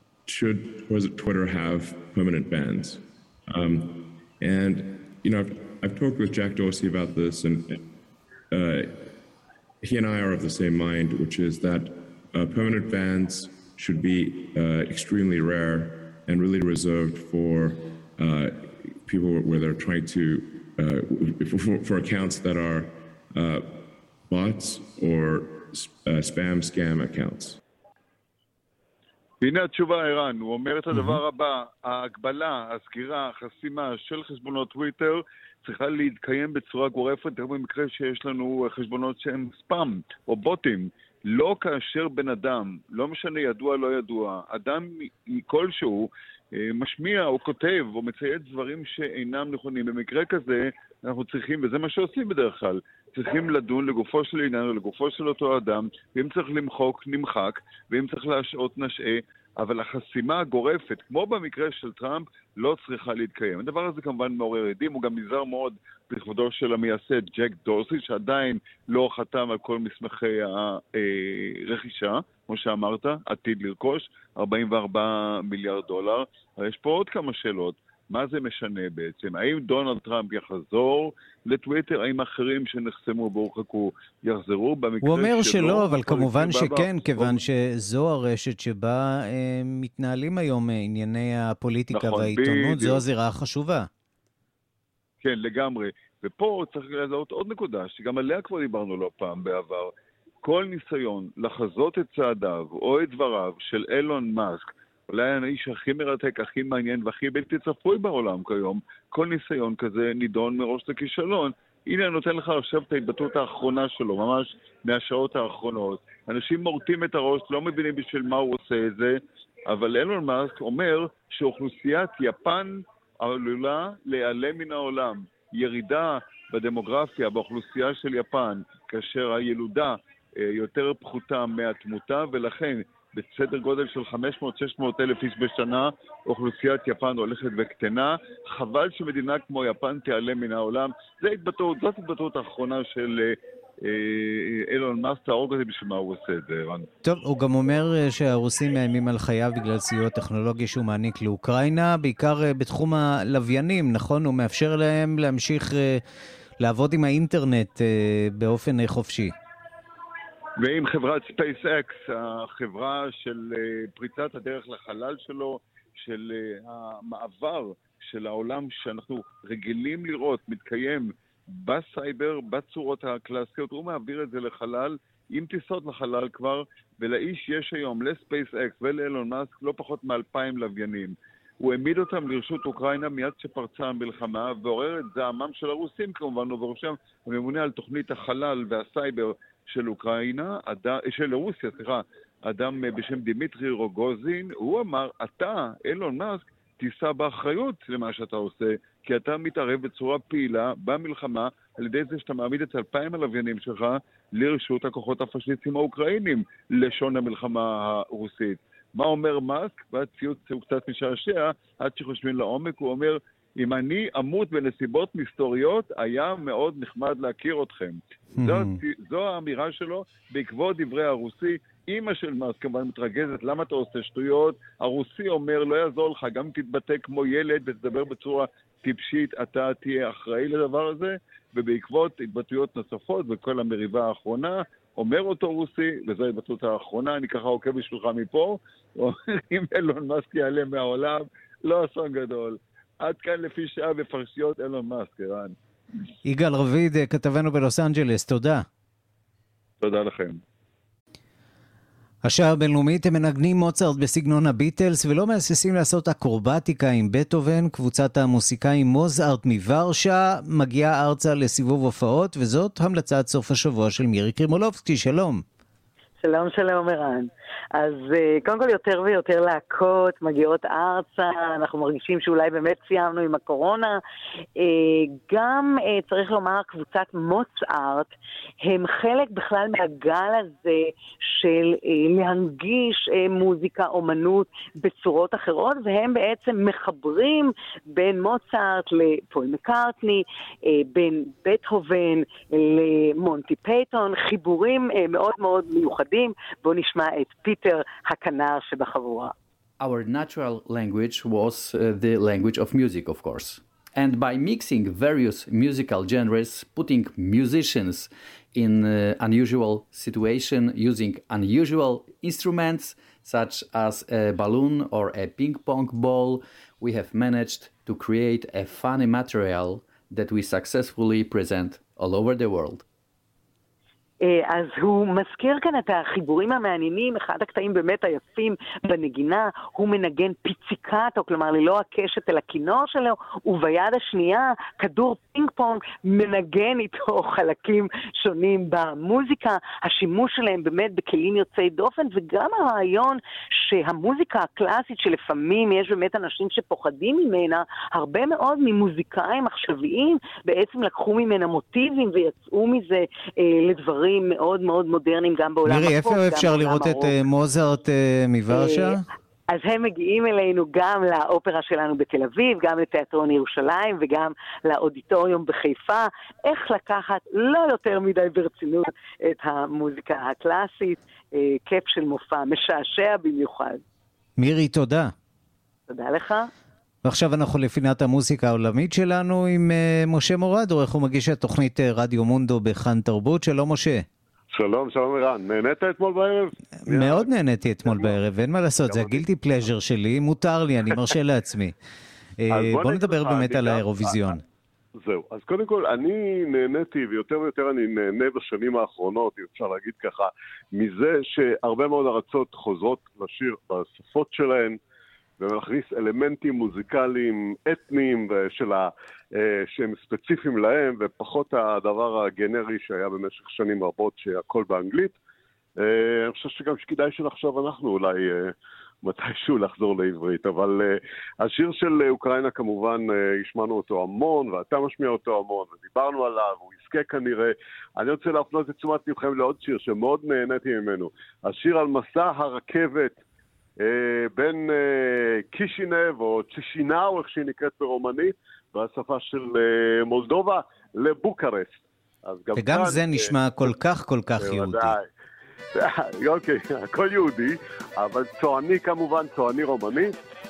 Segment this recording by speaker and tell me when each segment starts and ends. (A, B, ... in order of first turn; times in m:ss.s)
0:00.2-0:07.9 A
0:08.5-0:09.0 A
0:09.8-0:23.7 A
0:24.3-0:27.6 A
0:29.4-1:27.4 B
0:30.9-0:31.2 C
1:25.0-1:33.9 C
1:31.9-1:33.0 B
1:35.2-1:39.9 B
1:40.4-2:26.9 B
2:27.0-2:36.0 C
2:36.6-2:39.4 C
2:40.6-4:05.5 B
3:38.4-3:38.8 C
4:06.2-4:08.6 C
4:09.8-4:10.4 B
4:12.2-4:25.4 C
4:26.2-4:34.0 D
4:34.6-4:59.3 D
4:59.8-5:22.8 E
5:24.2-5:57.1 D
5:55.6-5:59.0 C
5:58.5-5:59.0 D
5:59.5-6:13.8 D
6:14.4-6:15.1 C
6:15.9-6:16.5 D
6:17.0-6:24.0 C
6:24.5-6:27.3 F
6:26.8-6:31.7 C
6:27.8-6:28.2 F
6:28.8-6:29.2 F
6:32.4-6:34.4 C
6:32.5-6:34.4 F
6:35.0-6:44.8 F
6:45.4-6:55.2 F
6:55.8-7:13.2 F
7:13.8-7:23.3 F
7:22.6-7:24.9 C
7:24.4-7:25.1 F
7:25.7-7:30.2 F